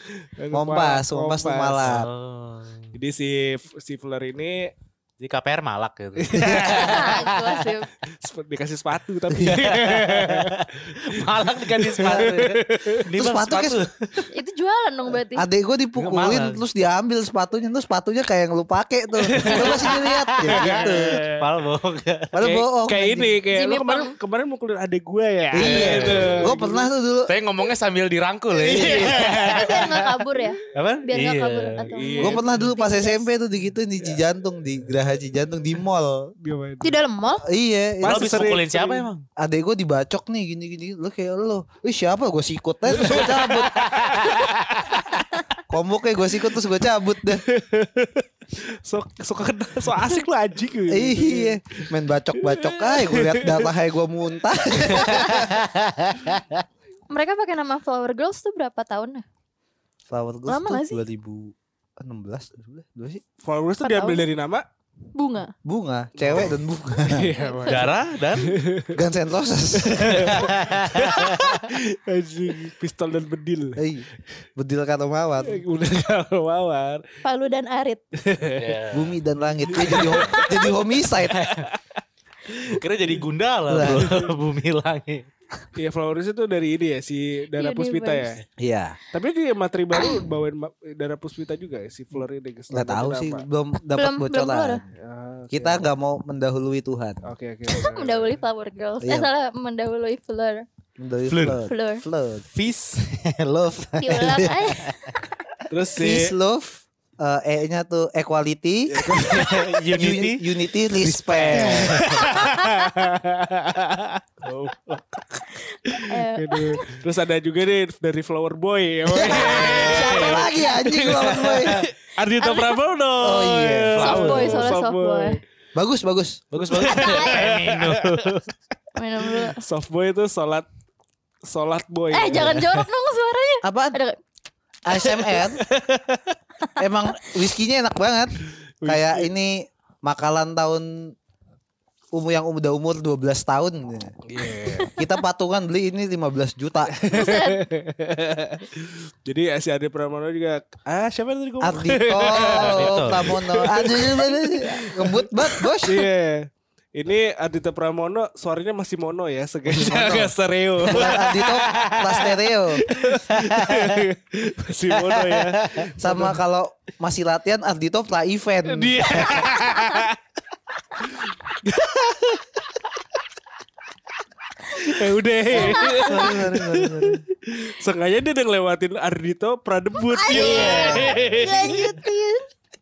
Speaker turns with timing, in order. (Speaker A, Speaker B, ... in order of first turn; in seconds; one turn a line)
Speaker A: 0.4-1.9
Speaker B: 0.5-2.1
Speaker C: 1.8-3.0
Speaker A: 3.0-4.7
Speaker C: 5.2-7.5
Speaker A: 6.2-7.2
Speaker B: 6.4-6.9
Speaker D: 6.7-7.9
Speaker A: 8.1-13.0
Speaker B: 9.3-9.7
Speaker C: 9.8-14.3
Speaker B: 13.1-13.8
Speaker D: 14.3-15.5
Speaker B: 15.3-21.2
Speaker C: 16.0-16.6
Speaker A: 19.2-21.4
Speaker C: 19.4-22.5
Speaker B: 22.3-23.4
Speaker A: 22.4-26.9
Speaker D: 23.5-24.1
Speaker B: 25.5-27.3
Speaker C: 25.6-26.5
Speaker C: 27.3-30.0
Speaker A: 28.6-29.9
Speaker B: 28.7-29.2
Speaker D: 29.4-33.3
Speaker C: 30.7-31.9
Speaker A: 31.9-32.7
Speaker B: 32.2-36.3
Speaker A: 36.4-37.0
Speaker D: 36.8-37.4
Speaker B: 37.4-38.6
Speaker A: 38.0-39.1
Speaker C: 38.0-39.2
Speaker B: 39.4-43.8
Speaker A: 42.9-45.0
Speaker C: 43.1-44.6
Speaker B: 45.7-47.4
Speaker A: 47.3-51.8
Speaker B: 50.9-55.5
Speaker A: 52.4-53.7
Speaker A: 54.9-55.5
Speaker D: 57.1-59.2
Speaker B: 60.1-63.2
Speaker D: 60.5-61.0
Speaker A: 63.4-64.7
Speaker D: 63.8-64.3
Speaker D: 65.1-65.5
Speaker B: 65.6-67.3
Speaker A: 66.2-69.0
Speaker D: 67.2-67.9
Speaker C: 67.7-68.6
Speaker B: 68.9-70.4
Speaker A: 69.8-73.8
Speaker C: 70.1-71.7
Speaker B: 73.8-75.6
Speaker A: 75.4-77.0
Speaker D: 77.2-78.0
Speaker A: 78.2-78.8
Speaker C: 78.5-79.2
Speaker B: 78.9-81.5
Speaker A: 79.7-80.6
Speaker C: 79.8-80.1
Speaker C: 81.3-81.6
Speaker A: 81.4-81.8
Speaker C: 82.7-85.3
Speaker B: 83.7-84.2
Speaker A: 83.8-84.3
Speaker A: 85.8-88.4
Speaker D: 87.6-88.4
Speaker B: 88.6-89.0
Speaker A: 89.1-93.5
Speaker B: 92.7-94.8
Speaker D: 94.0-94.8
Speaker A: 95.0-95.9
Speaker B: 95.5-97.3
Speaker A: 97.2-98.4
Speaker D: 97.7-100.7
Speaker B: 99.0-99.3
Speaker B: 101.0-102.5
Speaker C: 101.3-101.6
Speaker D: 101.6-102.0
Speaker C: 102.5-104.9
Speaker D: 104.0-105.2
Speaker A: 105.7-106.3
Speaker B: 106.0-112.0
Speaker A: 108.9-109.8
Speaker C: 109.1-110.5
Speaker C: 111.0-112.5
Speaker A: 111.5-125.4
Speaker D: 112.4-112.7
Speaker D: 115.9-116.9
Speaker B: 119.1-121.8
Speaker C: 119.4-121.8
Speaker D: 122.4-122.8
Speaker B: 123.2-124.3
Speaker C: 123.9-124.7
Speaker D: 124.0-125.4
Speaker B: 125.8-126.9
Speaker C: 126.5-128.5
Speaker A: 126.7-128.3
Speaker D: 126.8-127.5
Speaker D: 128.9-129.6
Speaker A: 129.4-130.7
Speaker A: 131.4-132.8
Speaker D: 132.1-134.2
Speaker B: 133.6-134.0
Speaker B: 134.9-135.6
Speaker A: 135.1-136.3
Speaker B: 136.8-141.1
Speaker A: 138.8-139.3
Speaker B: 142.1-144.1
Speaker A: 144.2-144.9
Speaker D: 144.7-145.0
Speaker B: 145.0-146.9
Speaker A: 146.9-161.6
Speaker D: 147.1-147.6
Speaker B: 151.6-156.1
Speaker C: 152.4-153.3
Speaker B: 159.7-162.9
Speaker C: 161.3-162.3
Speaker A: 162.8-166.4
Speaker C: 163.1-164.0
Speaker C: 164.9-165.9
Speaker B: 166.0-169.2
Speaker A: 168.7-170.2
Speaker A: 171.0-172.5
Speaker A: 174.7-182.1
Speaker D: 175.5-176.3
Speaker B: 175.5-177.2
Speaker D: 180.1-182.4
Speaker B: 180.3-181.2